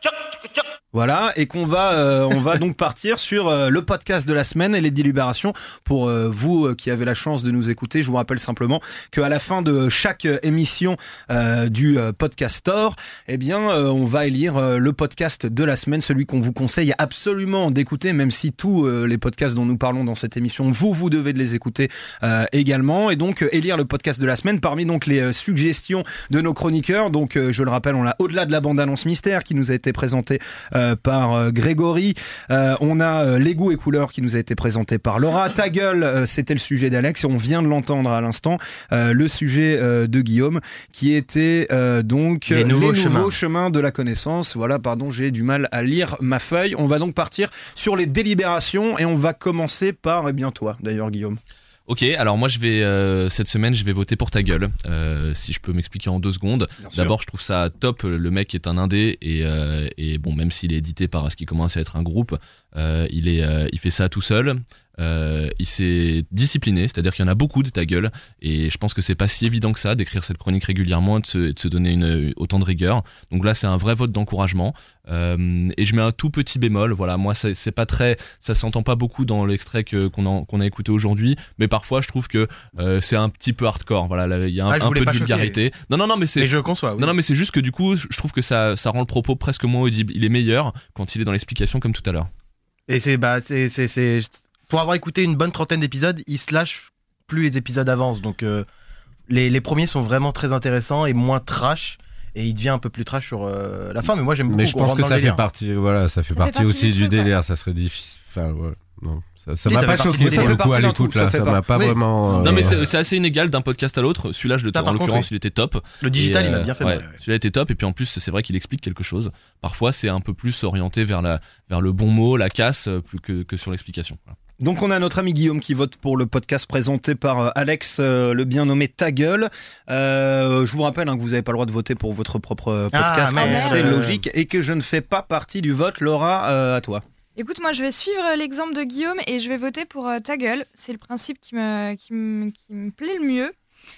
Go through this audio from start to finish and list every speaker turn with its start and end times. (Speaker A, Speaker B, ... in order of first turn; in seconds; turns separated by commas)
Speaker A: 0.9-51.4, Speaker B: 42.5-43.4, Speaker C: 51.9-92.3, Speaker A: 56.8-57.1, Speaker B: 84.7-85.5, Speaker B: 86.4-87.1, Speaker B: 92.9-98.6, Speaker B: 99.3-105.4, Speaker D: 104.5-112.8, Speaker E: 106.3-107.3, Speaker B: 109.7-110.6, Speaker A: 109.7-111.8, Speaker C: 112.4-124.3, Speaker B: 114.7-115.3, Speaker B: 116.0-117.2, Speaker A: 124.6-137.0, Speaker B: 132.9-134.2, Speaker E: 133.3-133.9, Speaker E: 137.3-143.5